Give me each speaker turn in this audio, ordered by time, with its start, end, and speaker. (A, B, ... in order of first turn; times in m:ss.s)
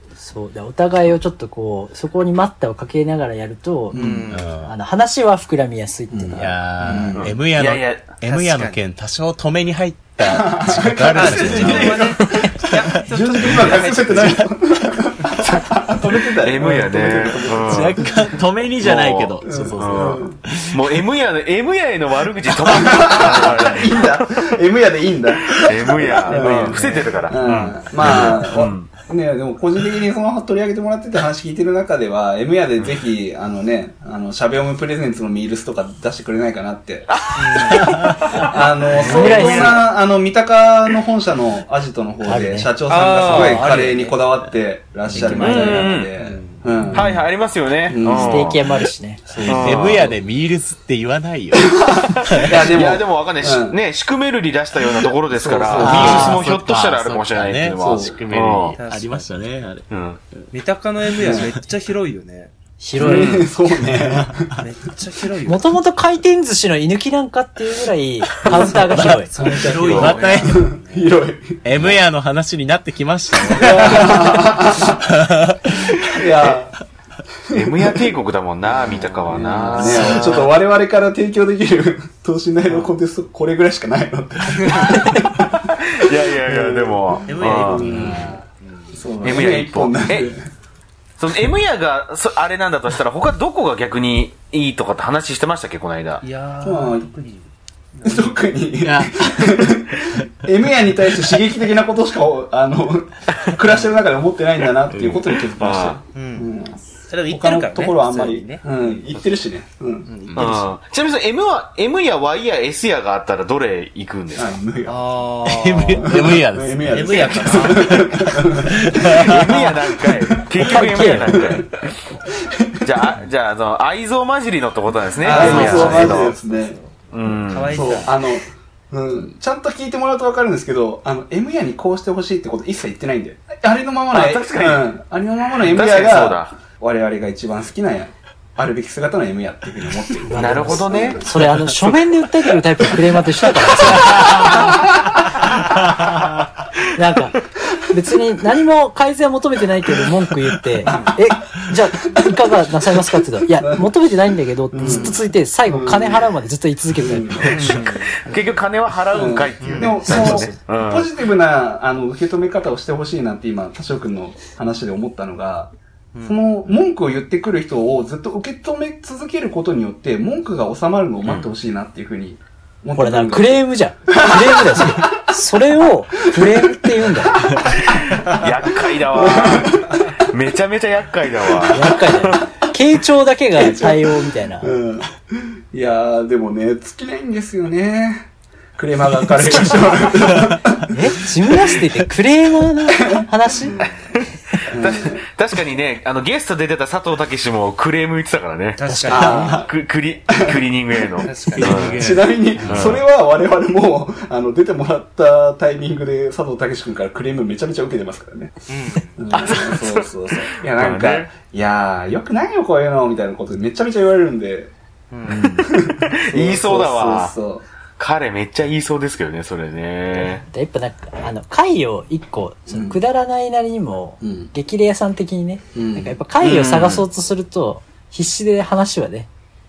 0:00.2-0:06.6 A
0:03.9-0:04.3 B
0:03.9-0:04.5 C
0:04.3-0:04.7 D
0:06.1-0:07.3 B
0:06.4-0:14.5 D
0:07.1-0:08.2 E
0:08.2-0:08.8 C
0:10.3-0:18.2 B
0:11.1-0:14.5 C
0:15.4-0:18.0 E
0:17.6-0:21.0 D
0:18.8-0:24.5 E
0:19.4-0:20.4 B
0:22.7-0:37.8 B
0:23.5-0:23.8 D
0:25.5-0:28.9 E
0:26.3-0:27.5 C
0:37.1-0:39.9 E
0:37.4-0:37.9 C
0:37.8-0:38.3 D
0:38.3-0:47.1 B
0:39.0-0:39.6 C
0:39.0-0:39.8 A
0:42.2-0:42.7 A
0:42.9-0:44.2 C
0:45.1-0:47.0 C
0:45.1-0:45.8 D
0:45.2-0:46.1 E
0:46.9-0:48.6 E
0:47.9-0:48.6 B
0:48.2-0:49.3 A
0:49.3-0:49.8 C
0:49.3-0:49.9 B
0:49.4-0:52.6 D
0:49.4-0:50.1 E
0:51.6-0:53.8 B
0:52.2-0:58.8 E
0:55.3-0:56.4 B
0:55.8-0:56.4 A
0:55.9-0:59.9 D
0:57.8-0:58.2 B
0:58.8-0:59.4 C
0:59.9-1:00.2 E
1:00.5-1:02.5 C
1:01.2-1:01.5 B
1:02.8-1:03.4 A
1:03.0-1:04.6 B
1:03.0-1:03.5 E
1:04.2-1:04.6 D
1:04.6-1:05.8 C
1:05.5-1:09.3 A
1:08.5-1:11.6 B
1:08.8-1:10.7 D
1:09.2-1:11.1 C
1:09.7-1:10.2 E
1:11.6-1:16.2 D
1:13.5-1:15.0 B
1:13.5-1:13.9 C
1:16.1-1:16.7 B
1:17.5-1:20.5 E
1:17.5-1:18.1 B
1:18.7-1:20.3 C
1:19.3-1:28.4 B
1:19.9-1:20.2 D
1:24.6-1:25.0 C
1:25.8-1:28.3 E
1:27.3-1:29.0 C
1:27.9-1:28.3 D
1:28.9-1:30.4 B
1:29.2-1:30.3 E
1:31.2-1:36.2 E
1:36.2-1:38.4 C
1:36.6-1:37.1 B
1:38.0-1:50.1 B
1:38.8-1:40.2 D
1:44.9-1:45.3 D
1:45.6-1:46.0 E
1:46.2-1:46.5 C
1:47.1-1:49.0 C
1:50.0-1:50.7 C
1:50.3-1:50.6 D
1:50.4-1:54.6 E
1:54.4-1:55.3 B
1:54.9-1:56.2 C
1:55.5-1:59.6 D
1:55.9-2:01.7 B
1:56.9-1:58.2 C
1:59.1-2:02.0 E
2:00.6-2:01.5 A
2:02.4-2:02.9 B
2:02.8-2:06.4 E
2:05.2-2:08.2 C
2:05.2-2:06.8 B
2:05.4-2:06.2 D
2:07.1-2:08.1 E
2:07.7-2:21.3 B
2:14.1-2:14.9 E
2:15.6-2:16.6 E
2:20.3-2:24.6 A
2:20.3-2:21.3 E
2:23.9-2:24.8 E
2:25.9-2:26.3 D
2:27.0-2:37.9 A
2:30.8-2:31.2 C
2:30.9-2:31.2 B
2:33.6-2:33.9 B
2:34.7-2:36.3 B
2:34.8-2:35.1 C
2:37.0-2:37.9 B
2:37.5-2:38.5 C
2:38.3-2:41.1 E
2:39.1-2:45.7 B
2:39.6-2:40.1 C
2:40.0-2:40.6 A
2:46.1-2:46.4 C
2:46.2-2:55.2 B
2:52.9-2:57.4 A
2:56.4-2:57.6 B
2:58.1-3:02.4 E
2:59.1-3:00.0 B
3:01.7-3:04.7 A
3:03.6-3:11.0 B
3:09.5-3:10.0 A
3:10.9-3:13.8 A
3:11.5-3:11.8 B
3:13.1-3:13.8 B
3:14.6-3:22.0 E
3:14.7-3:15.2 B
3:18.8-3:19.6 C
3:18.8-3:19.6 A
3:19.1-3:19.7 B
3:20.3-3:20.6 B
3:21.1-3:28.6 B
3:21.2-3:22.1 C
3:21.6-3:23.0 D
3:22.6-3:23.0 E
3:28.7-3:29.2 C
3:29.2-3:34.7 B
3:29.3-3:31.3 E
3:35.1-3:35.5 C
3:35.3-3:37.6 B
3:36.1-3:37.3 E
3:38.0-3:40.4 E
3:40.5-3:49.3 A
3:42.7-3:43.0 B
3:44.2-3:44.5 B
3:45.7-3:46.1 B
3:46.4-3:47.0 E